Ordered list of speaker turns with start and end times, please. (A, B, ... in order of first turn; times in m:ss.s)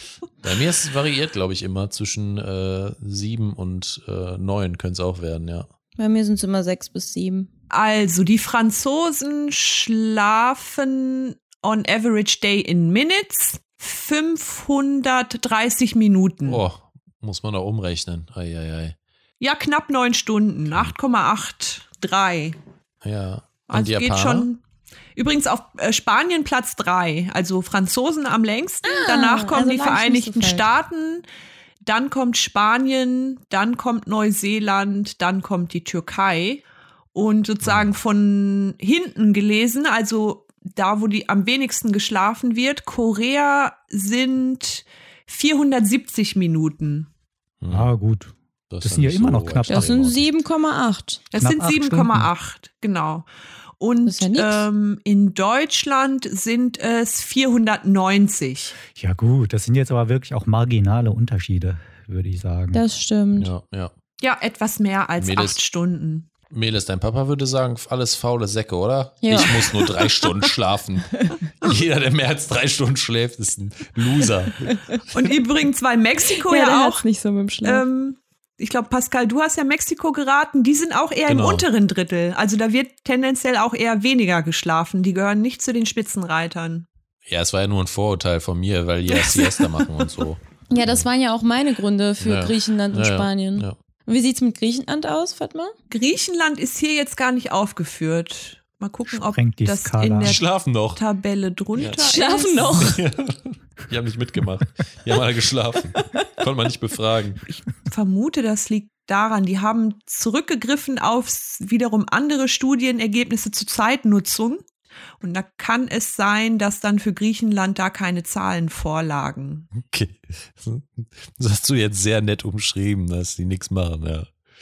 0:00.4-0:05.7 A
0:06.0-0:07.5 B
0:07.7-0:16.6 C
0:16.4-0:19.0 A
0:19.4-0:22.6 C
0:23.0-0:24.5 A
0:23.7-0:24.6 C
0:25.1-0:31.2 C
0:28.8-0:30.7 B
0:31.8-0:47.1 C
0:37.6-0:37.9 A
0:47.6-0:47.9 A
0:47.7-0:50.2 D
0:48.7-0:50.2 A
0:49.7-0:51.2 B
0:51.3-0:53.2 C
0:51.4-0:52.3 D
0:53.8-0:58.8 C
0:54.0-0:54.6 B
0:58.9-1:02.8 D
1:02.7-1:03.5 B
1:03.4-1:03.9 A
1:04.2-1:06.3 C
1:05.2-1:05.6 A
1:06.5-1:14.7 A
1:09.2-1:09.9 B
1:15.1-1:17.0 C
1:16.4-1:17.8 B
1:17.6-1:26.8 C
1:21.3-1:21.6 A
1:27.3-1:30.4 A
1:29.1-1:29.8 C
1:30.7-1:35.7 B
1:32.2-1:33.8 A
1:35.9-1:42.8 C
1:39.1-1:40.4 D
1:40.2-1:41.0 A
1:41.8-1:42.1 A
1:42.0-1:43.0 B
1:42.6-1:47.4 A
1:47.8-1:54.6 C
1:55.2-1:59.7 C
1:59.7-2:04.3 A